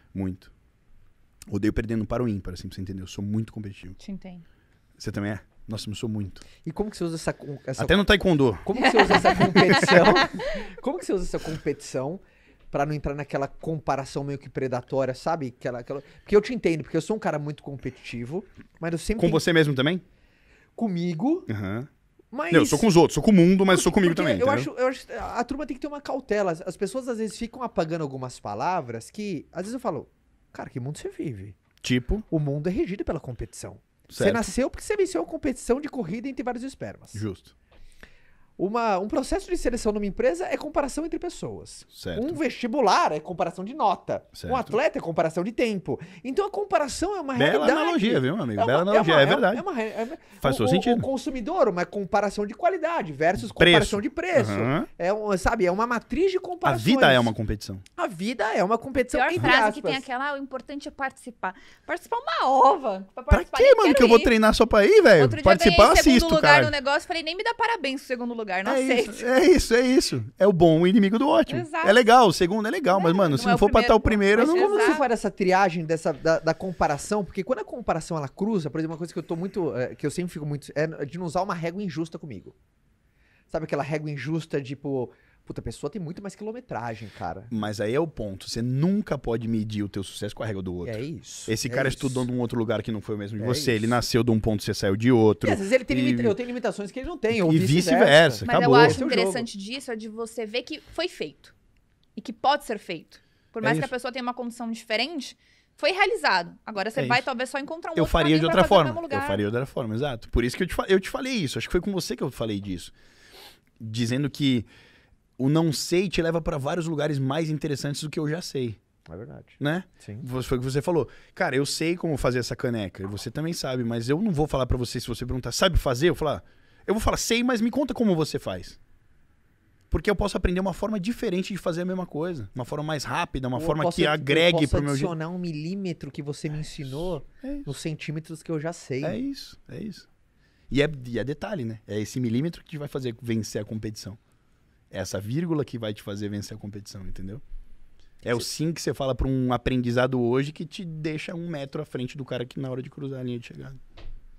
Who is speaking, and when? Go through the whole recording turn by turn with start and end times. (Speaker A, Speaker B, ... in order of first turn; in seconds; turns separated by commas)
Speaker A: 0.1-0.5, Speaker A: 1.5-4.0, Speaker B: 4.0-4.4, Speaker A: 5.0-6.4, Speaker C: 6.6-19.4, Speaker A: 7.8-8.7, Speaker A: 9.5-10.1, Speaker B: 10.2-10.5, Speaker A: 19.2-20.0, Speaker C: 20.8-21.5, Speaker A: 21.5-21.9, Speaker C: 22.3-22.9, Speaker A: 22.5-24.7, Speaker C: 23.7-31.6, Speaker A: 31.8-32.2, Speaker C: 32.3-37.2, Speaker A: 34.1-34.5, Speaker A: 37.1-37.5, Speaker C: 38.6-57.3, Speaker A: 41.9-42.4, Speaker A: 44.3-44.8, Speaker A: 47.3-49.6, Speaker A: 50.4-51.1, Speaker A: 53.4-54.9, Speaker A: 56.6-57.8, Speaker C: 58.0-60.0, Speaker B: 59.1-64.4, Speaker A: 63.3-66.7, Speaker B: 65.2-69.3, Speaker A: 68.7-74.7, Speaker B: 71.5-72.0, Speaker B: 72.9-75.1, Speaker C: 74.3-82.6, Speaker C: 83.5-87.5, Speaker A: 87.5-96.4, Speaker C: 90.8-92.3, Speaker C: 93.4-94.0, Speaker C: 95.4-99.5, Speaker A: 97.3-99.0, Speaker B: 98.4-101.5, Speaker B: 102.2-109.5, Speaker A: 103.6-103.9, Speaker A: 107.0-107.3, Speaker A: 108.0-112.9, Speaker A: 113.8-114.7, Speaker A: 115.4-118.8, Speaker C: 119.1-120.3, Speaker A: 119.6-128.8, Speaker A: 129.9-135.2, Speaker C: 133.5-139.2, Speaker A: 137.2-137.7, Speaker A: 139.0-140.1, Speaker A: 140.7-144.2, Speaker A: 144.9-147.4, Speaker A: 148.2-153.8